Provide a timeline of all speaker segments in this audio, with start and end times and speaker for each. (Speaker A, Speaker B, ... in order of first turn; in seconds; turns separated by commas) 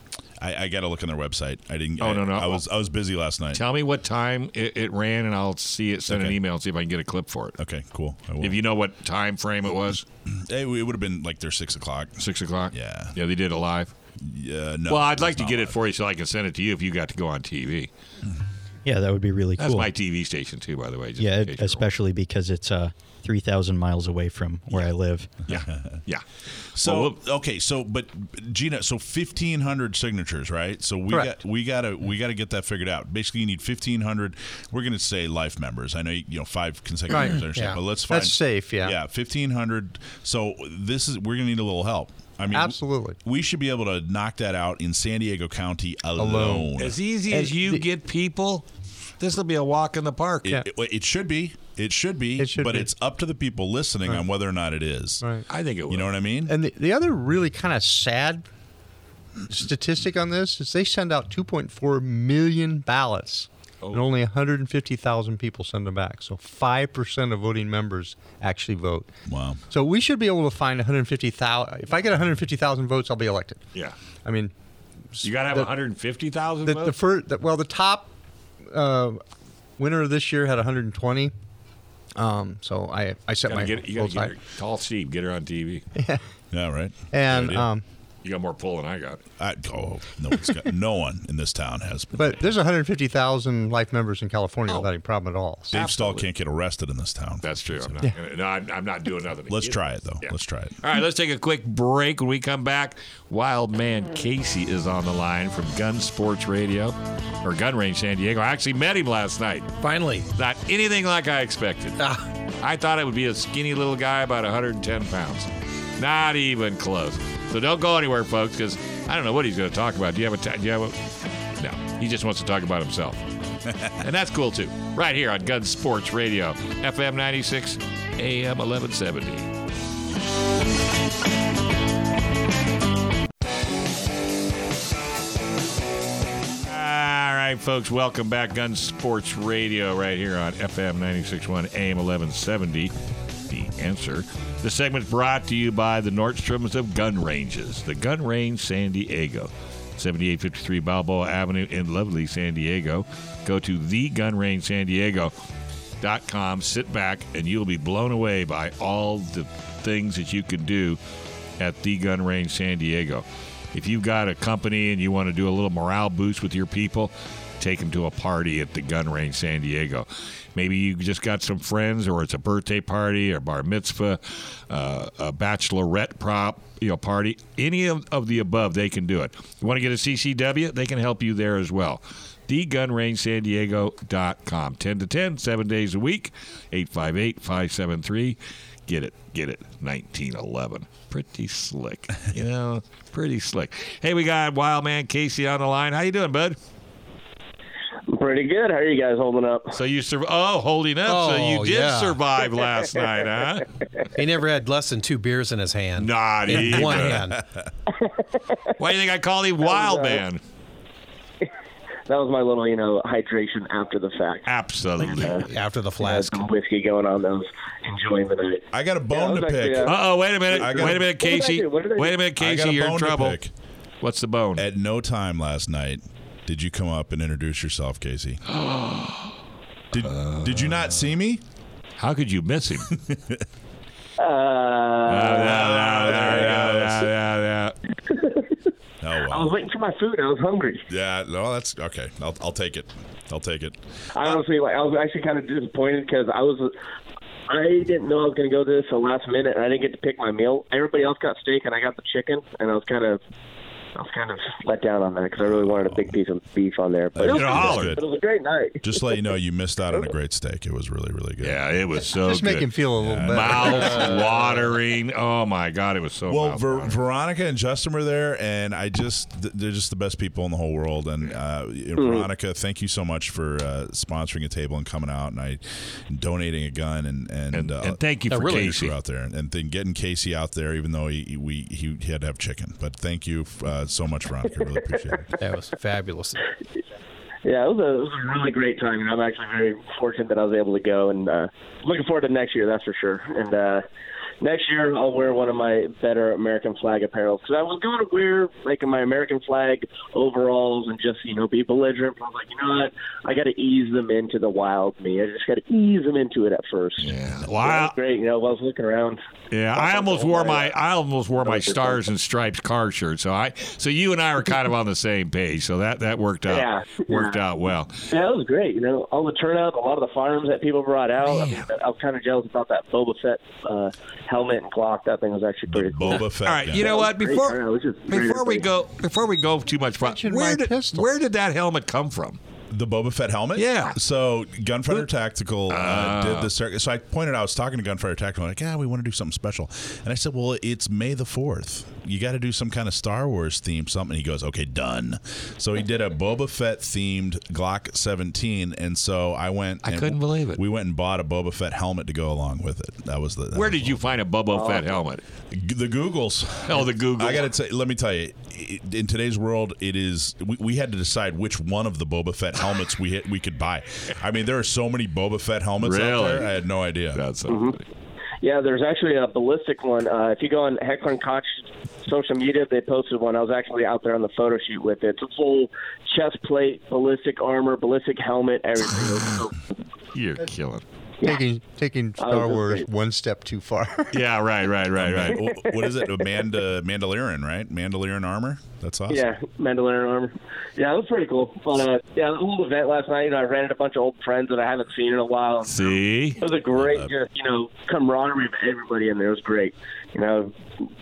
Speaker A: 0.4-3.6, Speaker B: 2.0-2.6, Speaker B: 3.5-7.6, Speaker A: 6.1-6.4, Speaker A: 7.6-8.6, Speaker B: 8.4-10.1, Speaker A: 10.3-13.2, Speaker B: 12.2-13.9, Speaker A: 14.2-15.8, Speaker B: 14.9-17.9, Speaker C: 18.9-19.9, Speaker B: 19.6-21.8, Speaker C: 21.2-25.3, Speaker B: 25.5-26.2, Speaker A: 25.5-26.0, Speaker A: 26.8-47.0, Speaker B: 26.8-27.2, Speaker D: 37.1-37.4, Speaker E: 37.5-37.8, Speaker D: 38.1-39.0, Speaker D: 42.5-43.2, Speaker D: 46.2-46.7, Speaker B: 46.8-48.6, Speaker D: 47.3-47.9, Speaker B: 49.2-50.6, Speaker A: 50.5-55.2, Speaker D: 52.4-52.9, Speaker B: 55.5-56.1, Speaker A: 55.9-56.5, Speaker D: 56.5-58.5, Speaker D: 59.5-69.1, Speaker A: 69.3-69.6, Speaker D: 69.7-73.6, Speaker D: 74.2-74.5, Speaker D: 75.2-75.7, Speaker B: 75.2-77.0, Speaker D: 76.7-78.1, Speaker D: 78.7-79.2, Speaker D: 79.8-81.3, Speaker D: 82.2-84.3, Speaker B: 83.5-85.8, Speaker D: 86.0-86.2, Speaker A: 86.5-87.7, Speaker D: 87.1-87.8, Speaker B: 88.2-89.2, Speaker A: 89.4-92.4, Speaker D: 92.2-95.8, Speaker A: 95.7-97.9, Speaker B: 95.7-96.3, Speaker B: 97.4-109.7, Speaker A: 99.5-100.8, Speaker E: 109.8-110.3, Speaker B: 110.3-112.0, Speaker E: 112.0-112.3, Speaker B: 112.6-123.2, Speaker B: 124.0-129.5, Speaker B: 136.7-142.9, Speaker B: 143.5-155.3, Speaker B: 156.0-161.0, Speaker B: 161.6-196.6, Speaker F: 198.1-199.8, Speaker B: 199.7-203.7, Speaker E: 201.1-202.2, Speaker E: 204.2-207.4, Speaker B: 206.0-207.3, Speaker F: 207.9-208.8, Speaker B: 208.8-210.4, Speaker F: 209.6-210.2, Speaker F: 212.1-214.5, Speaker B: 214.5-215.5, Speaker F: 215.1-220.0, Speaker E: 215.2-216.5, Speaker A: 218.7-219.9, Speaker B: 219.8-223.4, Speaker A: 220.5-221.1, Speaker F: 220.5-222.2, Speaker A: 222.4-223.5, Speaker B: 224.0-224.7, Speaker A: 224.6-228.4, Speaker B: 228.5-229.4, Speaker A: 229.9-231.4, Speaker B: 230.0-230.9, Speaker B: 232.0-232.9, Speaker A: 232.9-233.4, Speaker F: 234.2-236.2, Speaker B: 235.1-237.8, Speaker A: 235.3-237.1, Speaker F: 238.1-238.6, Speaker A: 239.0-239.6, Speaker F: 239.3-240.8, Speaker A: 240.9-244.4, Speaker F: 244.1-246.7, Speaker F: 247.5-253.2, Speaker F: 253.9-259.1, Speaker A: 255.5-256.1, Speaker A: 257.1-258.0, Speaker B: 257.3-258.0, Speaker A: 258.8-261.6, Speaker B: 261.4-267.0, Speaker D: 262.2-264.5, Speaker A: 263.0-264.2, Speaker A: 266.3-285.3, Speaker F: 272.0-272.3, Speaker B: 277.5-278.9, Speaker E: 278.3-278.7, Speaker E: 285.4-286.4, Speaker F: 287.4-293.9, Speaker F: 294.4-309.2, Speaker B: 307.0-307.9, Speaker B: 309.5-318.1, Speaker F: 309.8-310.8, Speaker F: 311.4-312.0, Speaker F: 316.5-317.4, Speaker F: 318.1-328.7, Speaker B: 321.2-321.7, Speaker A: 325.7-326.9, Speaker B: 326.2-332.4, Speaker D: 330.0-331.1, Speaker A: 332.7-354.1, Speaker B: 333.6-334.0, Speaker B: 335.7-336.5, Speaker B: 349.8-350.6, Speaker B: 353.5-355.2, Speaker F: 354.5-354.9, Speaker A: 355.5-367.2, Speaker B: 356.6-357.5, Speaker B: 365.8-366.5, Speaker B: 367.1-367.8, Speaker F: 367.5-367.8, Speaker F: 368.4-379.6, Speaker B: 380.1-380.8, Speaker D: 381.2-384.2, Speaker F: 382.2-382.9, Speaker B: 384.1-385.4, Speaker A: 385.0-389.3, Speaker F: 385.3-386.1, Speaker F: 389.1-400.6, Speaker B: 395.7-396.4, Speaker A: 396.7-397.1